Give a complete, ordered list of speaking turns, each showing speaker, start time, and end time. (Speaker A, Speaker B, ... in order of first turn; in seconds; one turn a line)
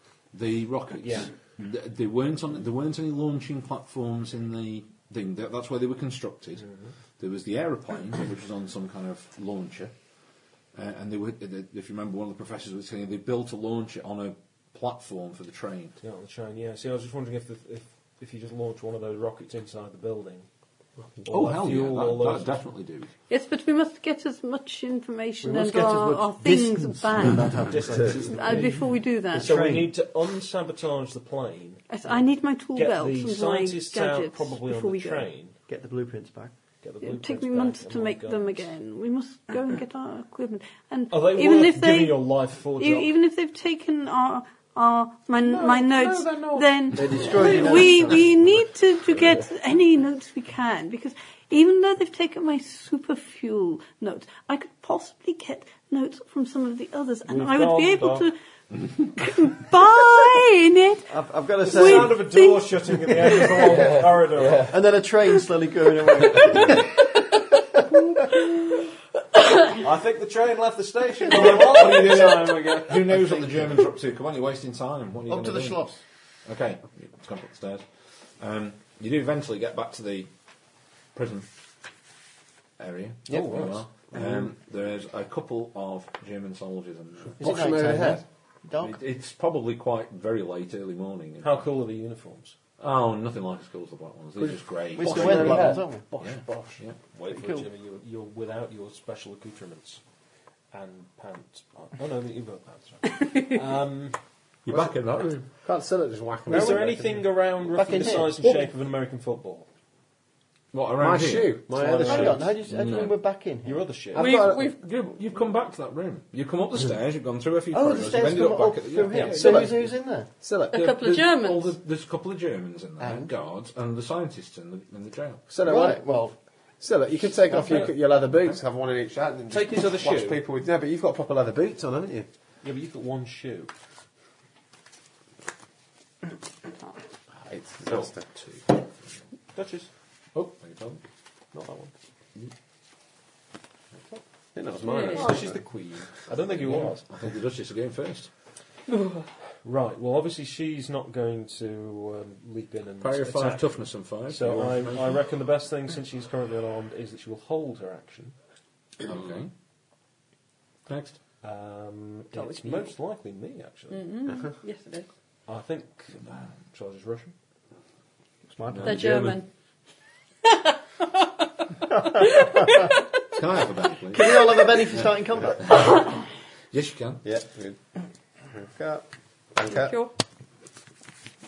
Speaker A: 0.3-6.7
Speaker B: 1.0-1.3
Speaker A: 7.2-9.9
Speaker A: 10.7-16.0
Speaker B: 16.0-20.5
Speaker B: 21.2-22.5
Speaker A: 21.3-23.1
Speaker C: 23.3-27.6
Speaker D: 25.4-28.7
Speaker B: 27.7-32.2
Speaker C: 28.2-29.6
Speaker D: 29.3-29.9
Speaker C: 31.9-35.3
Speaker B: 32.7-35.5
Speaker D: 35.7-36.5
Speaker B: 36.8-38.7
Speaker C: 37.0-58.4
Speaker B: 41.1-43.1
Speaker E: 45.5-47.6
Speaker D: 46.9-48.3
Speaker B: 57.3-58.3
Speaker C: 59.1-61.1
Speaker D: 61.1-62.3
Speaker B: 61.6-64.8
Speaker C: 61.7-63.3
Speaker D: 63.4-68.2
Speaker B: 69.8-73.3
Speaker A: 71.3-75.9
Speaker D: 75.3-76.0
Speaker A: 76.5-80.3
Speaker A: 81.1-81.5
Speaker A: 82.8-87.6
Speaker E: 83.3-84.2
Speaker B: 83.3-83.7
Speaker E: 87.4-88.2
Speaker D: 87.4-89.0
Speaker A: 88.8-91.7
Speaker B: 91.4-92.5
Speaker A: 92.8-97.0
Speaker E: 94.4-96.8
Speaker D: 94.9-96.0
Speaker B: 97.1-100.0
Speaker D: 97.3-97.7
Speaker B: 100.7-104.2
Speaker A: 104.6-105.5
Speaker E: 105.5-107.3
Speaker B: 106.5-109.7
Speaker D: 107.7-108.5
Speaker A: 110.7-111.6
Speaker E: 111.0-112.5
Speaker B: 111.8-112.5
Speaker D: 112.0-113.8
Speaker A: 112.7-113.2
Speaker B: 113.6-114.3
Speaker E: 114.1-114.8
Speaker A: 114.2-119.7
Speaker C: 114.4-114.7
Speaker D: 117.7-120.3
Speaker B: 119.1-119.7
Speaker E: 119.4-119.7
Speaker E: 120.4-120.8
Speaker C: 120.7-121.7
Speaker A: 120.7-125.4
Speaker D: 123.0-123.3
Speaker E: 125.5-126.0
Speaker D: 125.6-126.3
Speaker E: 126.8-132.3
Speaker B: 127.5-127.9
Speaker B: 129.5-130.4
Speaker B: 132.6-133.7
Speaker E: 137.4-138.2
Speaker A: 137.9-138.7
Speaker B: 139.5-139.9
Speaker A: 140.3-141.0
Speaker B: 141.5-141.9
Speaker E: 144.5-145.7
Speaker C: 144.8-145.4
Speaker B: 144.9-147.0
Speaker A: 146.5-148.3
Speaker B: 149.6-153.8
Speaker A: 153.0-155.2
Speaker B: 154.3-158.3
Speaker A: 159.0-159.5
Speaker A: 160.9-161.2
Speaker B: 161.4-164.1
Speaker C: 162.3-162.9
Speaker C: 163.9-165.1
Speaker B: 165.5-167.3
Speaker D: 168.5-169.1
Speaker A: 168.7-169.4
Speaker C: 168.8-169.5
Speaker C: 170.5-171.2
Speaker C: 172.0-173.0
Speaker A: 173.3-176.1
Speaker D: 174.1-176.1
Speaker A: 176.7-177.2
Speaker E: 177.2-177.8
Speaker E: 178.5-179.9
Speaker C: 179.6-180.1